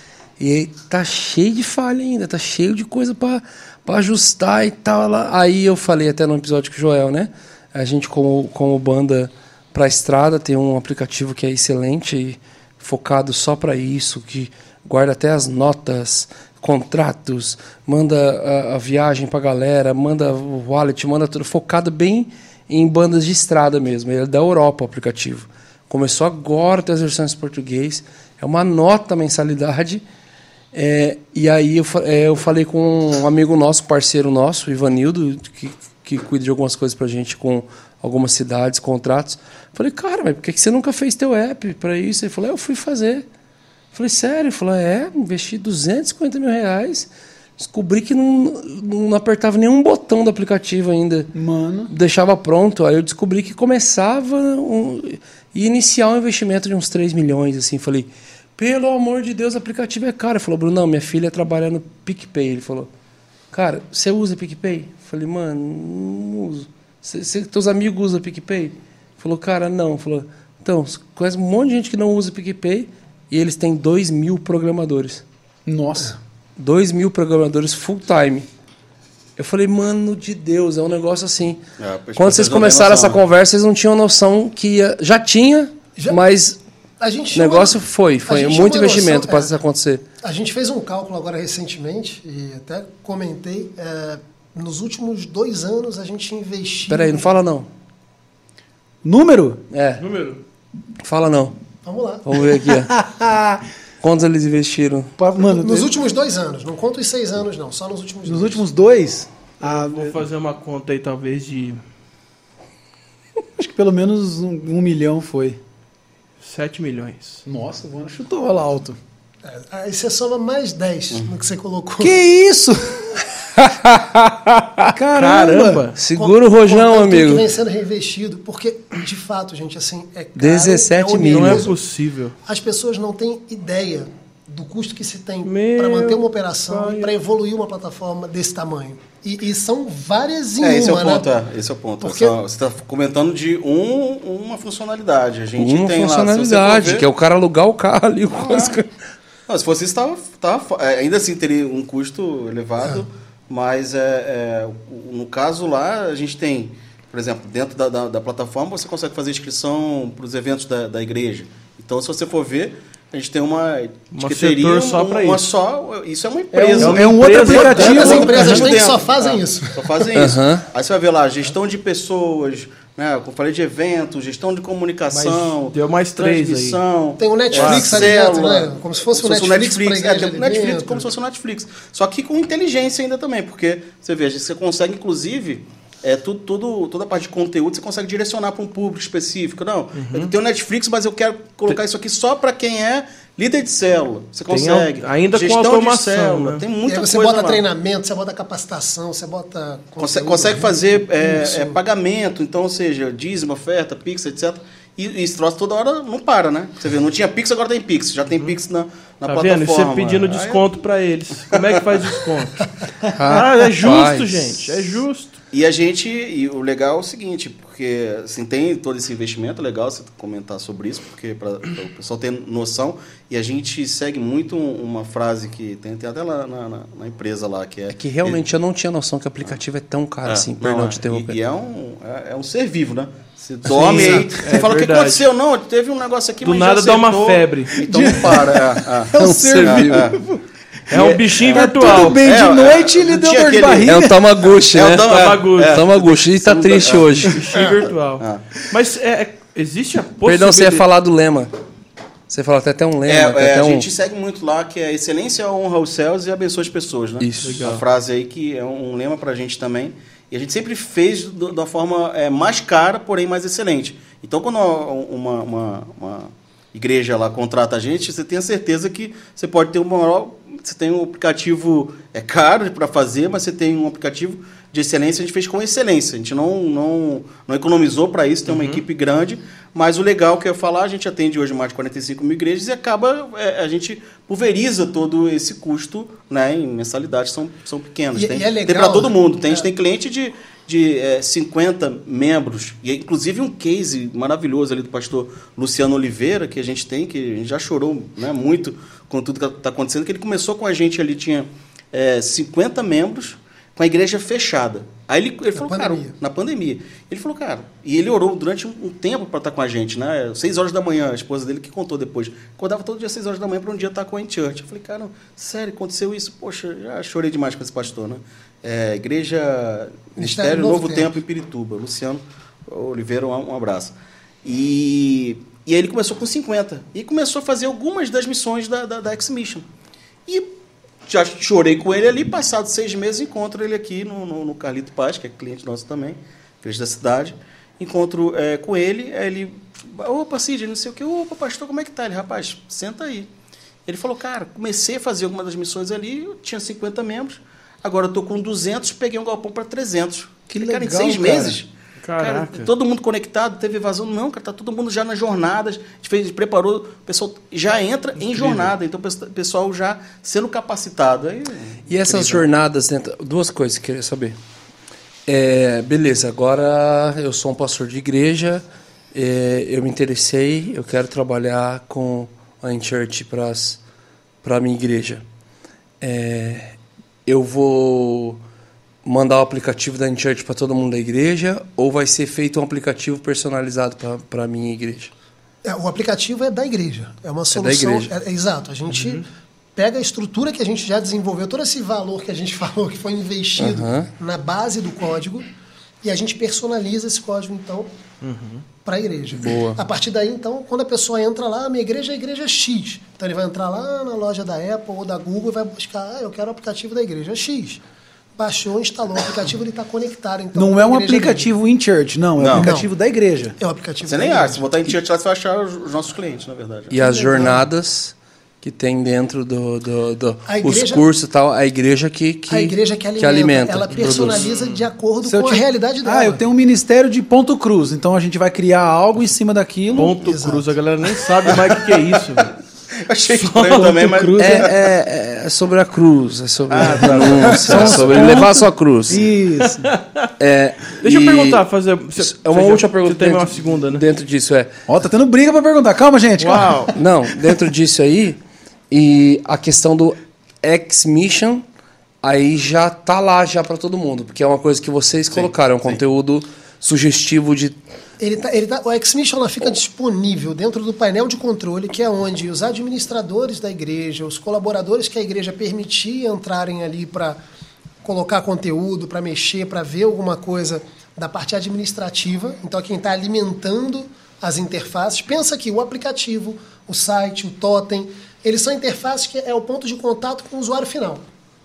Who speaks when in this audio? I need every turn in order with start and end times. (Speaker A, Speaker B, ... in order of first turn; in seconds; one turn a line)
Speaker A: 0.4-30.0
Speaker A: 30.7-43.2
Speaker A: 43.9-51.3
Speaker B: 51.3-51.9
Speaker A: 51.9-62.9
Speaker A: 63.5-75.2
Speaker B: 75.7-76.2
Speaker A: 76.6-78.5
Speaker A: 79.4-81.6
Speaker C: 81.8-83.2
Speaker A: 82.2-86.6
Speaker D: 87.0-89.6
Speaker A: 87.3-90.0
Speaker D: 90.2-97.3
Speaker A: 96.9-97.7
Speaker B: 99.0-99.6
Speaker A: 99.7-100.0
Speaker E: 100.0-100.4
Speaker A: 101.0-101.5
Speaker D: 101.8-102.2
Speaker A: 102.2-103.0
Speaker B: 102.5-103.6
Speaker A: 104.0-105.1
Speaker B: 105.2-105.9
Speaker D: 105.4-108.6
Speaker B: 108.2-110.2
Speaker E: 109.6-111.8
Speaker B: 113.6-115.6
Speaker E: 116.4-117.4
Speaker B: 117.4-119.0
Speaker D: 119.4-122.2
Speaker B: 122.0-123.2
Speaker A: 123.5-124.9
Speaker B: 124.9-125.8
Speaker E: 125.1-126.0
Speaker A: 126.0-127.5
Speaker D: 126.1-131.7
Speaker A: 130.3-131.7
Speaker E: 131.2-132.3
Speaker D: 132.4-141.3
Speaker E: 135.4-137.2
Speaker C: 140.6-147.1
Speaker D: 142.0-142.3
Speaker A: 145.6-148.9
Speaker C: 148.3-148.8
Speaker C: 149.5-197.6
Speaker E: 164.1-165.4
Speaker B: 166.5-168.7
Speaker E: 166.8-168.6
Speaker D: 167.7-170.2
Speaker A: 170.1-170.7
Speaker E: 175.1-176.8
Speaker D: 177.2-181.1
Speaker E: 177.5-178.1
Speaker E: 189.9-190.3
Speaker E: 194.5-196.6
Speaker D: 196.8-201.8
Speaker C: 200.0-210.7
Speaker E: 209.2-212.7
Speaker A: 213.1-214.7
Speaker E: 213.2-215.4
Speaker C: 215.5-228.4
Speaker A: 227.9-231.4
Speaker C: 230.2-240.2
Speaker E: 233.7-235.3
Speaker A: 233.8-234.2
Speaker E: 236.4-238.1
Speaker B: 237.8-240.4
Speaker A: 239.1-240.1
Speaker E: 240.9-242.3
Speaker C: 240.9-244.1
Speaker B: 240.9-244.2
Speaker A: 243.8-247.4
Speaker C: 244.7-248.4
Speaker E: 245.0-245.8
Speaker E: 247.3-250.8
Speaker A: 250.2-251.5
Speaker A: 252.3-253.9
Speaker C: 253.1-329.6
Speaker A: 257.2-257.7
Speaker E: 257.4-257.8
Speaker E: 278.5-278.8
Speaker D: 288.1-289.7
Speaker D: 305.5-306.1
Speaker D: 320.1-321.1
Speaker C: 331.1-343.3
Speaker C: 343.9-362.4
Speaker B: 350.5-351.6
Speaker E: 352.0-352.7
Speaker E: 358.2-358.7
Speaker A: 361.9-364.4
Speaker A: 365.3-373.8
Speaker A: 374.4-375.2
Speaker A: 376.0-376.7
Speaker A: 377.2-378.4
Speaker A: 379.0-385.1
Speaker D: 385.6-395.4
Speaker A: 387.5-388.1
Speaker A: 393.6-394.1
Speaker D: 396.0-397.9
Speaker E: 398.2-398.6
Speaker D: 398.8-407.8
Speaker A: 399.4-399.8
Speaker D: 408.4-411.5
Speaker B: 410.5-413.6
Speaker C: 412.4-412.7
Speaker D: 412.6-412.9
Speaker D: 413.6-414.6
Speaker C: 414.1-417.0
Speaker A: 416.9-424.5
Speaker D: 417.0-417.6
Speaker D: 420.4-421.0
Speaker D: 422.5-426.4
Speaker E: 424.0-424.5
Speaker B: 425.2-430.2
Speaker E: 429.9-432.6
Speaker D: 430.2-430.7
Speaker C: 431.5-431.8
Speaker C: 433.0-434.9
Speaker E: 433.3-434.0
Speaker B: 433.7-434.7
Speaker A: 434.4-439.2
Speaker C: 436.7-438.4
Speaker E: 436.8-438.0
Speaker B: 437.1-439.9
Speaker E: 439.6-440.3
Speaker A: 440.4-441.6
Speaker E: 441.0-444.1
Speaker A: 442.2-444.7
Speaker B: 444.9-447.6
Speaker E: 446.4-446.9
Speaker A: 446.9-448.4
Speaker A: 448.9-451.6
Speaker A: 452.2-457.8
Speaker C: 455.3-456.0
Speaker D: 458.2-467.4
Speaker D: 468.0-481.2